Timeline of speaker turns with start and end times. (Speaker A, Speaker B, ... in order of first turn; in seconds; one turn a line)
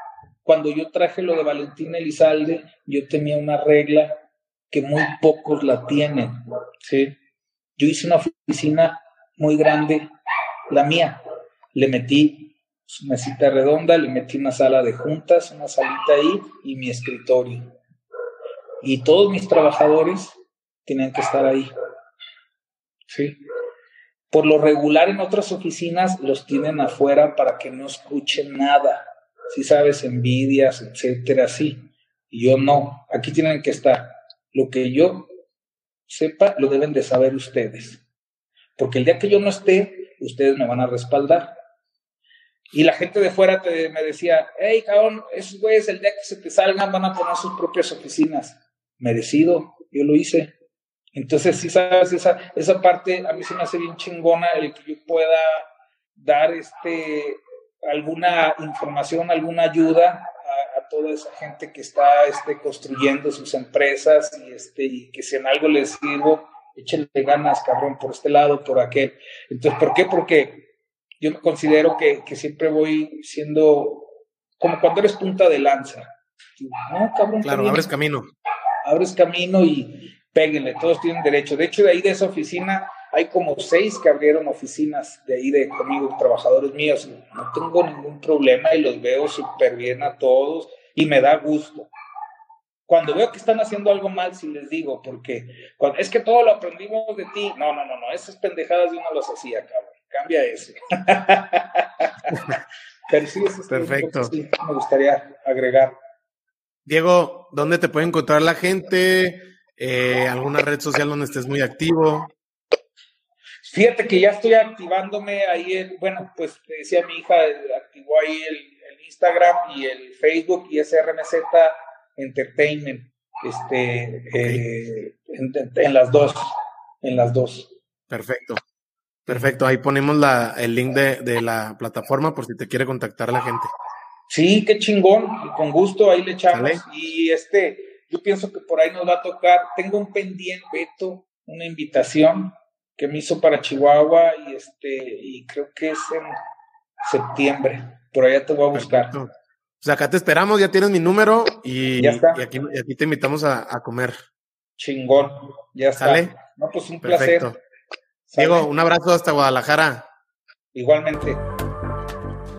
Speaker A: 0.4-4.1
Speaker A: 4.7-7.1
Speaker A: 7.8-10.1
Speaker A: 10.7-11.2
Speaker A: 11.7-17.7
Speaker A: 18.8-21.7
Speaker A: 23.1-23.4
Speaker A: 24.3-35.3
Speaker A: 36.1-38.0
Speaker A: 38.8-41.5
Speaker A: 42.7-50.5
Speaker A: 51.1-70.7
Speaker A: 71.2-77.9
Speaker B: 77.4-78.3
Speaker A: 78.8-91.9
Speaker A: 92.9-102.4
Speaker A: 103.1-105.9
Speaker B: 103.7-104.3
Speaker B: 106.8-112.3
Speaker A: 113.6-127.7
Speaker B: 128.1-128.6
Speaker B: 129.2-133.7
Speaker A: 134.3-146.3
Speaker B: 136.5-136.8
Speaker A: 147.0-149.1
Speaker B: 148.7-154.2
Speaker A: 152.0-152.4
Speaker A: 154.8-157.5
Speaker B: 156.0-156.3
Speaker B: 157.0-157.6
Speaker A: 158.3-158.7
Speaker B: 158.4-160.1
Speaker A: 160.7-161.4